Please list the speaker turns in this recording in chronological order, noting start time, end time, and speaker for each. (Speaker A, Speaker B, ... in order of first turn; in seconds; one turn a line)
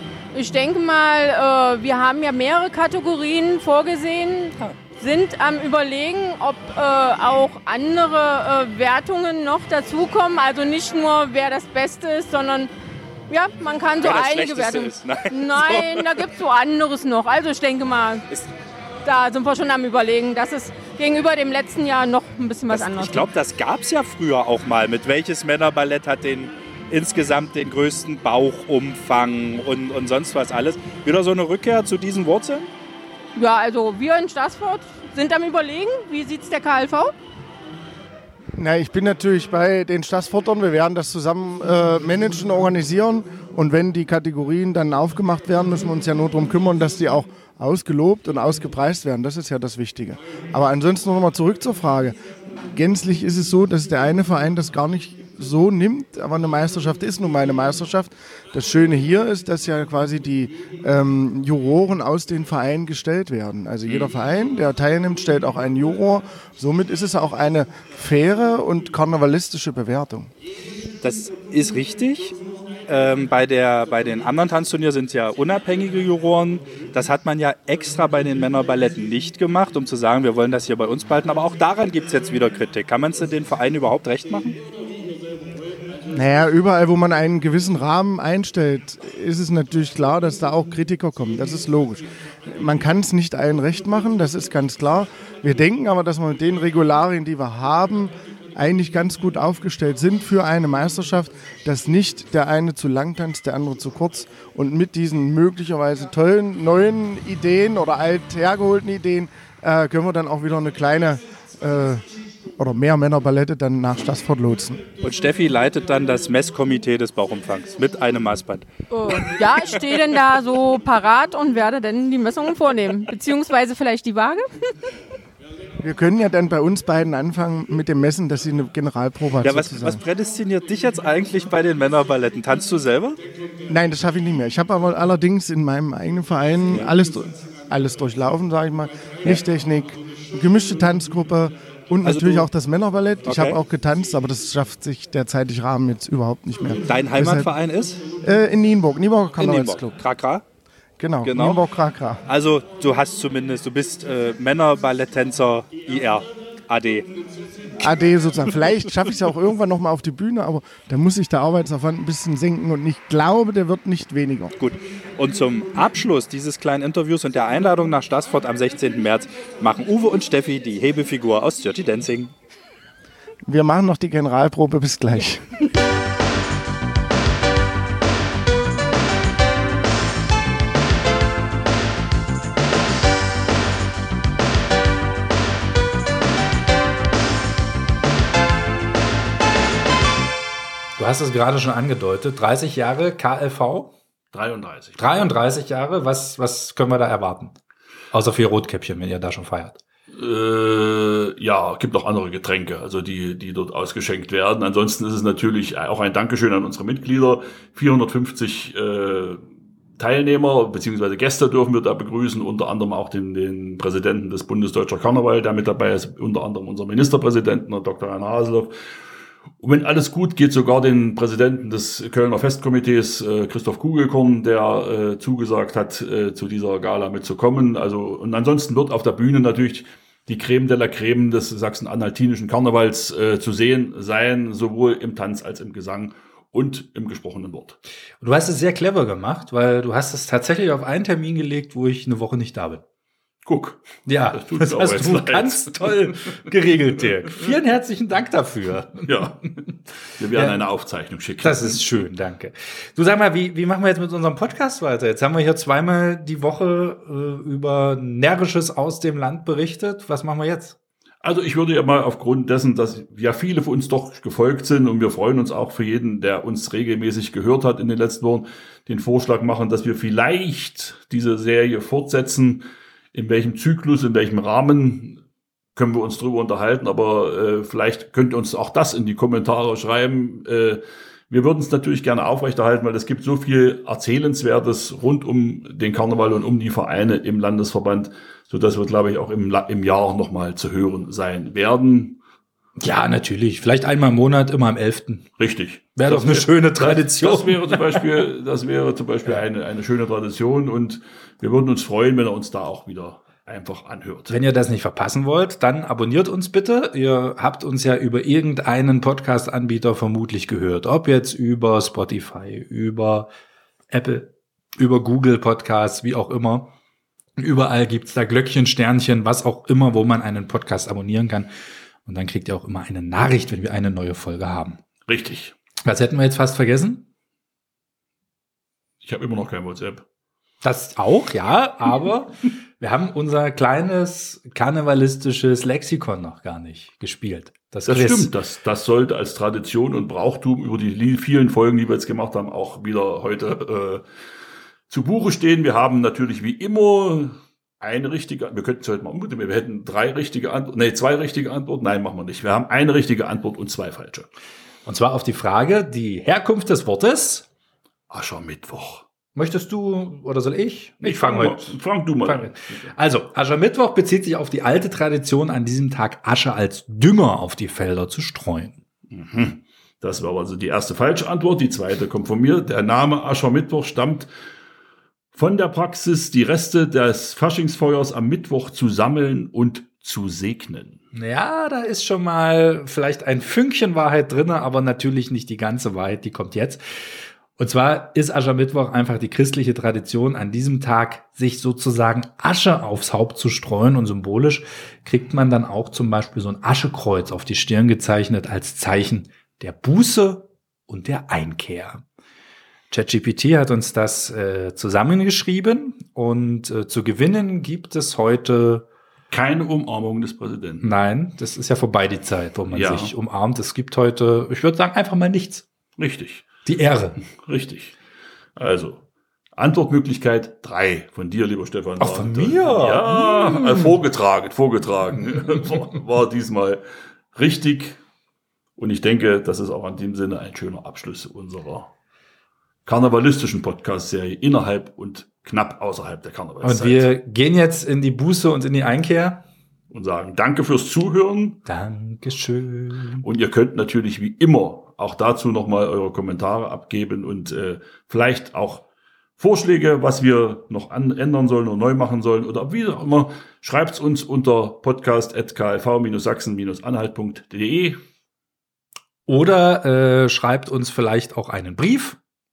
Speaker A: 0.3-12.7
Speaker A: 13.3-18.3
Speaker B: 14.0-16.2
Speaker A: 19.0-23.3
Speaker B: 22.7-32.7
Speaker A: 33.4-37.1
Speaker C: 38.6-52.1
Speaker C: 52.7-70.3
Speaker B: 71.0-72.4
Speaker B: 72.9-84.6
Speaker C: 86.1-112.0
Speaker C: 112.6-114.8
Speaker B: 115.0-119.8
Speaker A: 118.9-124.5
Speaker C: 125.8-130.0
Speaker B: 129.4-133.2
Speaker C: 133.7-147.5
Speaker B: 142.0-142.5
Speaker B: 143.2-143.6
Speaker B: 146.8-148.0
Speaker C: 148.2-150.0
Speaker B: 149.4-150.4
Speaker C: 151.0-152.2
Speaker B: 151.2-151.6
Speaker B: 152.2-157.1
Speaker C: 157.8-164.5
Speaker B: 164.6-172.3
Speaker C: 173.5-175.4
Speaker B: 191.0-193.9
Speaker D: 194.3-195.3
Speaker B: 195.0-197.6
Speaker B: 198.1-199.8
Speaker D: 200.1-209.4
Speaker D: 210.0-218.7
Speaker D: 219.6-237.8
Speaker B: 238.2-242.8
Speaker D: 243.4-246.1
Speaker B: 244.1-249.1
Speaker D: 249.0-249.5
Speaker D: 250.2-251.8
Speaker B: 251.4-260.8
Speaker D: 261.2-272.6
Speaker D: 273.1-275.2
Speaker D: 275.8-292.2
Speaker B: 292.8-295.3
Speaker D: 295.4-304.4
Speaker B: 296.0-298.1
Speaker B: 304.3-313.3
Speaker B: 313.9-316.7
Speaker B: 317.4-321.5
Speaker B: 322.0-324.8
Speaker D: 325.1-325.5
Speaker B: 325.9-327.0
Speaker D: 329.0-330.0
Speaker B: 330.6-338.3
Speaker D: 337.9-344.0
Speaker D: 344.9-354.3
Speaker B: 354.9-357.5
Speaker D: 358.1-359.0
Speaker B: 359.4-368.8
Speaker D: 361.0-362.9
Speaker D: 369.1-374.3
Speaker D: 375.3-381.0
Speaker B: 381.1-386.8
Speaker B: 387.6-402.0
Speaker B: 402.9-408.9
Speaker D: 409.3-410.9
Speaker B: 410.8-415.6
Speaker D: 412.7-413.1
Speaker D: 416.0-416.5
Speaker B: 416.6-417.2
Speaker D: 417.4-417.9
Speaker D: 418.6-419.0
Speaker D: 419.6-426.8
Speaker B: 422.0-423.9
Speaker D: 427.4-428.0
Speaker D: 428.8-431.9
Speaker D: 432.9-437.1
Speaker B: 436.6-439.4
Speaker D: 439.9-441.6
Speaker B: 441.6-443.2
Speaker D: 443.2-448.9
Speaker D: 449.4-458.0
Speaker B: 459.3-462.2